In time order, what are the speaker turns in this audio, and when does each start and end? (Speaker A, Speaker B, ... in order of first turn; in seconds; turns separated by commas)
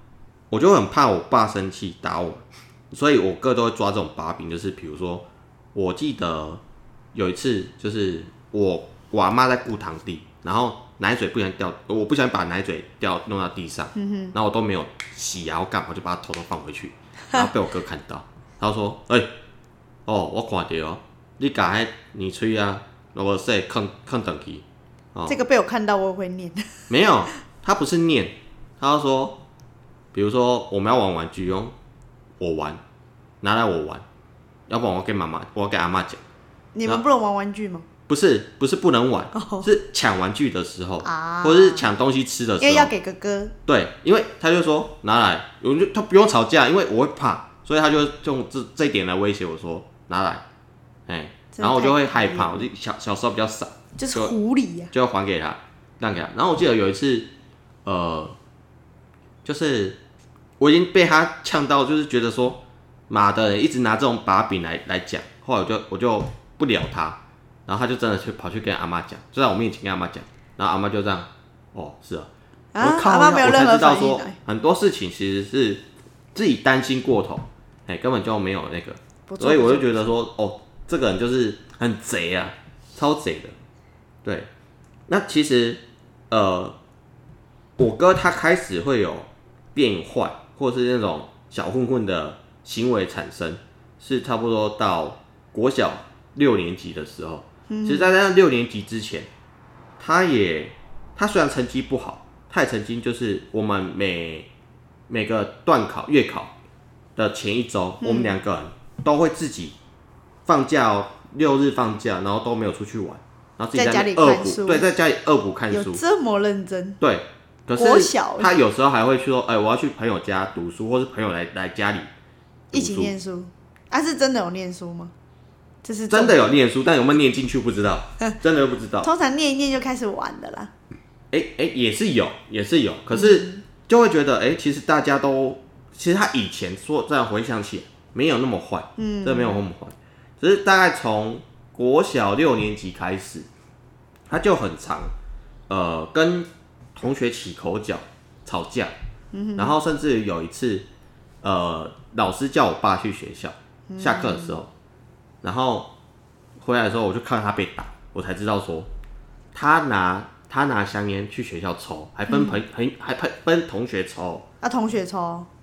Speaker A: 0.5-6.6, Speaker A: 7.1-19.3, Speaker B: 13.9-14.3, Speaker A: 20.1-25.4, Speaker B: 25.3-26.9, Speaker A: 26.9-29.4, Speaker A: 30.1-31.7, Speaker A: 32.4-32.8, Speaker A: 33.4-34.0, Speaker A: 34.7-36.2, Speaker B: 36.7-37.9, Speaker A: 38.1-42.9, Speaker B: 39.3-39.7, Speaker B: 41.0-41.9, Speaker B: 42.6-43.5, Speaker A: 43.6-50.4, Speaker A: 51.1-54.3, Speaker B: 51.5-52.7, Speaker B: 54.0-54.9, Speaker A: 54.9-57.3, Speaker A: 57.8-58.3, Speaker A: 59.4-60.0, Speaker A: 60.6-75.8, Speaker B: 72.7-74.4, Speaker A: 76.3-83.5, Speaker B: 79.3-80.1, Speaker A: 84.2-84.5, Speaker A: 85.1-86.8, Speaker A: 87.8-99.3, Speaker B: 97.7-98.1, Speaker A: 100.0-104.5, Speaker A: 105.1-106.5, Speaker A: 107.2-109.8, Speaker B: 108.0-108.4, Speaker A: 110.5-116.0, Speaker B: 113.7-114.8, Speaker B: 115.7-117.0, Speaker A: 117.0-122.1, Speaker B: 117.8-118.5, Speaker A: 122.7-123.1, Speaker B: 122.7-125.1, Speaker B: 125.8-126.5, Speaker A: 126.1-129.1, Speaker B: 129.0-130.7, Speaker A: 131.3-143.5, Speaker B: 133.1-133.6, Speaker B: 139.0-139.6, Speaker A: 144.3-145.1, Speaker A: 145.7-148.9, Speaker B: 149.3-149.8, Speaker A: 149.6-150.9, Speaker A: 151.4-154.7, Speaker B: 153.9-154.6, Speaker A: 155.4-155.9, Speaker A: 156.6-158.9, Speaker A: 159.5-164.4, Speaker B: 162.3-162.6, Speaker B: 164.6-165.5